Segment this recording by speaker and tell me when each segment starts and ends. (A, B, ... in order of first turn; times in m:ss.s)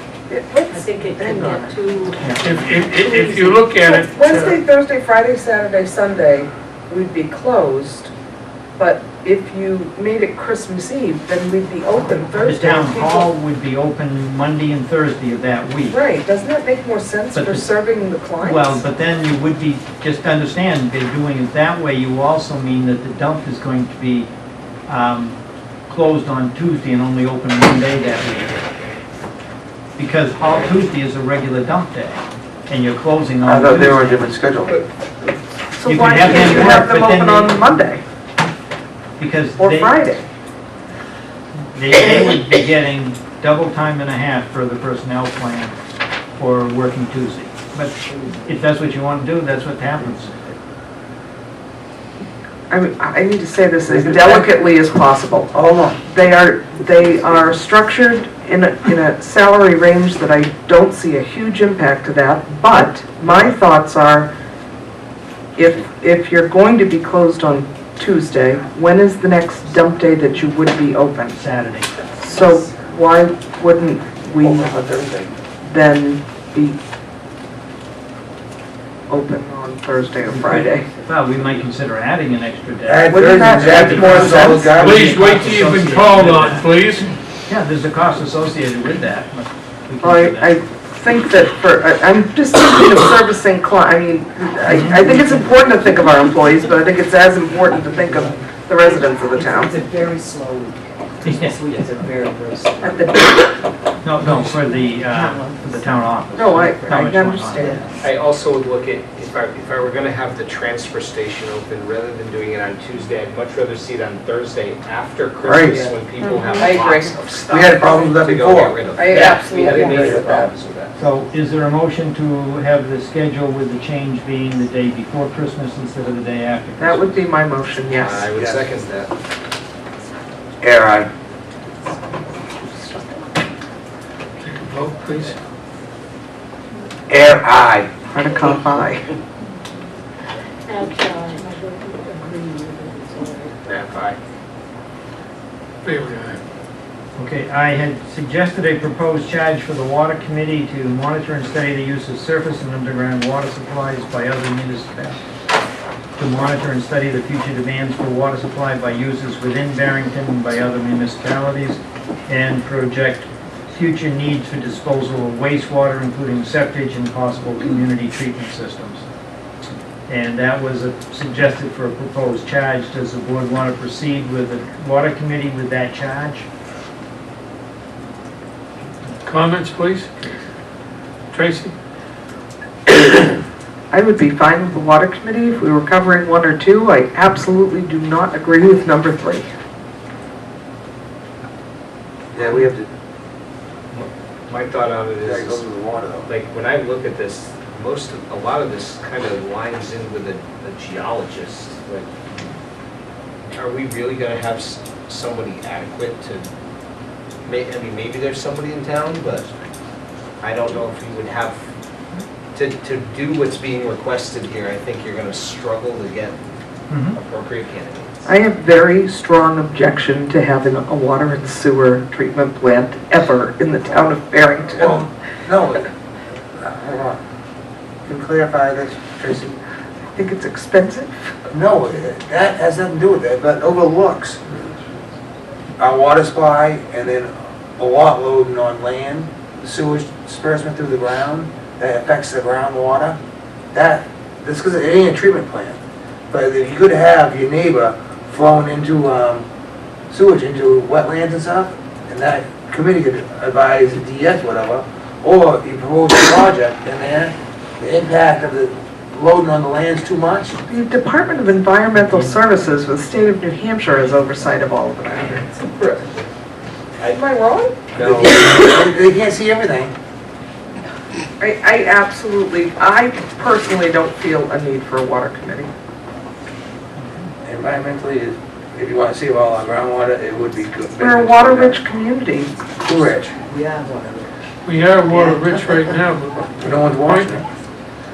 0:00.3-0:08.1 A
0:00.7-0:02.6 B
0:02.4-0:04.6 C
0:08.8-0:13.3 A
0:12.4-0:16.0 D
0:15.9-0:18.8 A
0:17.3-0:17.7 D
0:18.4-0:24.3 D
0:24.9-0:28.6 D
0:30.0-0:34.4 D
0:33.4-0:34.8 E
0:35.8-0:38.0 A
0:35.8-0:37.6 D
0:36.3-0:36.8 E
0:39.2-0:40.1 D
0:39.6-0:40.3 A
0:41.7-0:45.8 D
0:46.4-0:50.5 D
0:48.2-0:48.6 F
0:52.7-1:04.3 A
0:53.9-0:54.5 E
0:55.5-0:56.0 E
1:05.6-1:11.4 A
1:11.3-1:11.9 D
1:12.2-1:14.9 A
1:14.4-1:15.4 E
1:15.6-1:16.8 A
1:19.1-1:20.9 A
1:20.3-1:26.7 D
1:22.9-1:25.5 E
1:23.1-1:24.8 A
1:24.8-1:27.1 C
1:27.5-1:30.6 D
1:30.0-1:39.8 A
1:34.7-1:35.2 D
1:35.0-1:35.9 F
1:37.6-1:38.5 F
1:39.3-1:43.2 F
1:41.2-1:41.6 D
1:42.8-1:43.6 A
1:44.0-1:47.8 D
1:44.2-1:46.1 F
1:46.4-1:47.9 A
1:47.6-1:47.9 F
1:48.0-2:01.0 G
1:55.4-1:55.9 E
1:55.8-1:57.3 A
1:57.5-2:00.4 E
1:59.0-2:00.5 A
2:01.0-2:07.2 D
2:06.8-2:08.3 A
2:07.9-2:09.1 G
2:08.4-2:08.6 E
2:10.6-2:11.1 E
2:12.5-2:13.3 A
2:14.4-2:15.4 C
2:17.1-2:17.9 E
2:18.1-2:19.1 A
2:20.7-2:23.6 B
2:23.6-2:24.2 G
2:25.8-2:26.4 C
2:27.2-2:35.2 D
2:36.2-2:49.0 D
2:50.1-2:56.4 D
2:59.2-3:00.3 C
3:01.3-3:01.7 C
3:03.9-3:09.4 A
3:12.3-3:12.9 E
3:13.9-3:15.7 G
3:15.2-3:16.3 E
3:16.2-3:22.1 G
3:23.6-3:26.5 G
3:27.4-3:29.5 G
3:30.4-3:31.6 G
3:32.5-3:36.4 G
3:36.9-3:37.2 D
3:37.1-3:38.3 G
3:38.2-3:45.1 A
3:44.8-3:45.9 E
3:46.6-3:47.2 E
3:48.1-3:49.6 E
3:50.1-3:51.1 A
3:51.5-3:54.4 E
3:55.8-4:03.2 E
4:03.7-4:05.8 E
4:06.3-4:09.5 E
4:10.1-4:20.6 E
4:20.7-4:26.0 A
4:22.0-4:22.4 D
4:27.0-4:27.8 A
4:27.9-4:28.5 G
4:28.0-4:29.9 E
4:31.4-4:35.7 A
4:37.0-4:37.3 D
4:37.4-4:41.8 E
4:41.0-4:42.5 A
4:42.8-4:43.4 E
4:43.1-4:44.3 F
4:44.6-4:47.4 C
4:46.6-4:47.5 E